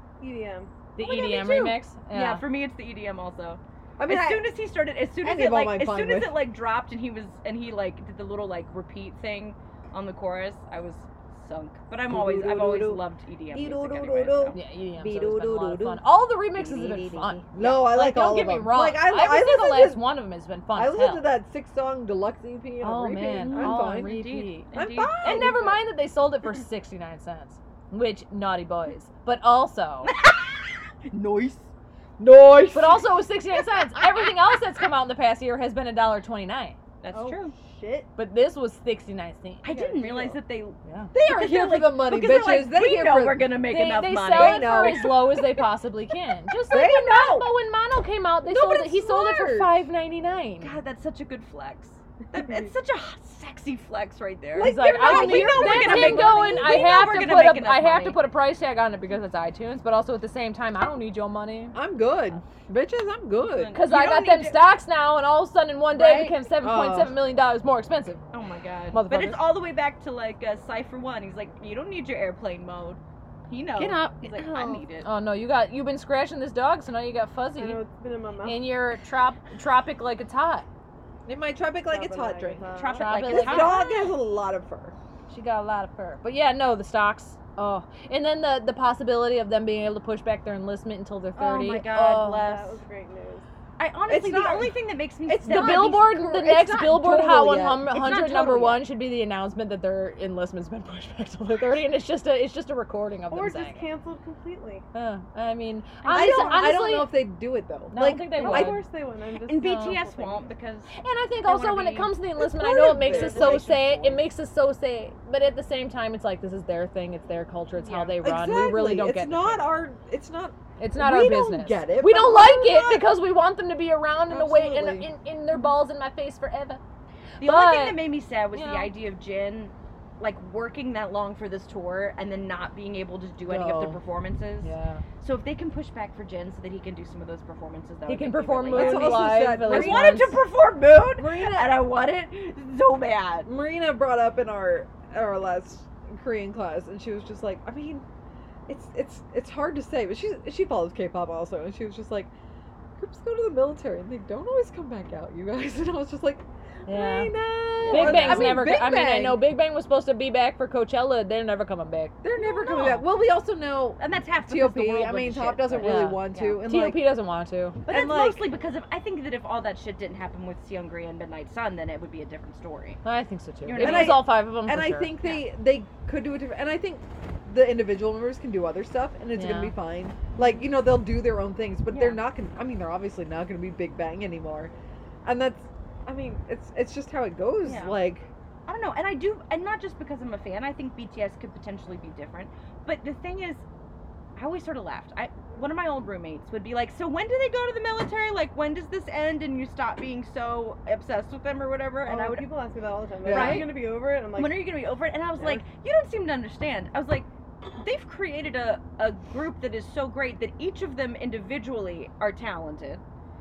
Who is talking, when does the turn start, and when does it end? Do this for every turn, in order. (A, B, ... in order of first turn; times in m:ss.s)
0:00.2-0:00.7 A
0:01.0-0:02.4 B
0:01.0-0:14.6 C
0:04.0-0:04.5 D
0:05.2-0:06.5 D
0:12.1-0:16.0 D
0:14.5-0:21.2 B
0:16.5-0:20.1 D
0:17.5-0:17.8 C
0:20.7-0:24.2 D
0:22.8-0:24.7 B
0:23.2-0:25.5 C
0:24.7-0:25.8 D
0:25.2-0:30.1 B
0:30.0-0:30.7 C
0:31.1-0:33.1 D
0:32.7-0:36.8 B
0:34.0-0:34.3 C
0:37.0-0:37.5 C
0:37.1-0:38.1 A
0:38.2-0:39.7 B
0:39.6-0:45.0 C
0:39.6-0:40.4 A
0:40.8-0:41.1 B
0:41.1-0:43.6 D
0:43.7-0:50.7 B
0:44.2-0:45.4 D
0:46.7-0:47.5 D
0:48.4-0:49.8 D
0:50.6-0:58.2 C
0:52.4-0:52.7 A
0:54.6-0:56.6 D
0:54.6-1:01.8 B
1:01.7-1:03.8 D
1:03.4-1:04.7 C
1:03.7-1:08.2 B
1:05.9-1:06.4 C
1:06.6-1:07.2 D
1:08.3-1:15.1 C
1:08.9-1:09.6 B
1:13.8-1:14.5 D
1:15.0-1:17.8 B
1:17.6-1:18.7 A
1:18.4-1:20.7 B
1:21.2-1:24.9 D
1:21.9-1:23.0 A
1:22.8-1:24.2 C
1:23.0-1:23.8 B
1:25.3-1:32.4 B
1:31.4-1:32.8 C
1:32.3-1:33.4 A
1:33.8-1:36.2 C
1:34.1-1:37.9 D
1:35.4-1:43.9 B
1:37.9-1:38.8 C
1:43.3-1:44.8 A
1:44.9-1:47.2 B
1:46.0-1:46.8 C
1:46.1-1:48.7 D
1:47.9-1:48.8 B
1:48.4-1:50.5 A
1:48.4-1:48.7 C
1:49.4-1:52.1 C
1:51.0-1:59.7 B
1:52.4-1:53.7 D
1:53.0-1:54.3 C
1:57.8-1:58.2 C
1:58.2-2:03.1 D
2:00.8-2:06.8 B
2:04.3-2:05.1 D
2:07.4-2:23.5 C
2:07.4-2:08.9 B
2:13.5-2:14.0 D
2:14.6-2:15.0 B
2:18.1-2:20.4 B
2:18.7-2:20.3 D
2:21.2-2:21.8 D
2:23.4-2:28.0 D
2:28.7-2:32.3 D
2:33.0-2:39.4 D
2:36.9-2:37.3 B
2:37.9-2:42.1 B
2:37.9-2:38.6 C
2:42.2-2:47.1 D
2:42.3-2:43.1 C
2:44.0-2:46.6 C
2:45.8-2:47.8 B
2:47.8-2:53.0 C
2:47.9-2:48.5 D
2:53.0-2:55.1 B
2:53.6-2:54.3 C
2:53.8-3:04.7 D
2:59.3-2:59.7 B
3:01.9-3:02.2 C
3:05.2-3:08.3 D
3:07.6-3:08.0 C
3:08.7-3:13.6 C
3:14.4-3:22.5 C
3:22.0-3:24.7 A
3:23.2-3:23.7 D
3:23.3-3:27.3 C
3:25.4-3:25.6 A
3:27.8-3:33.0 C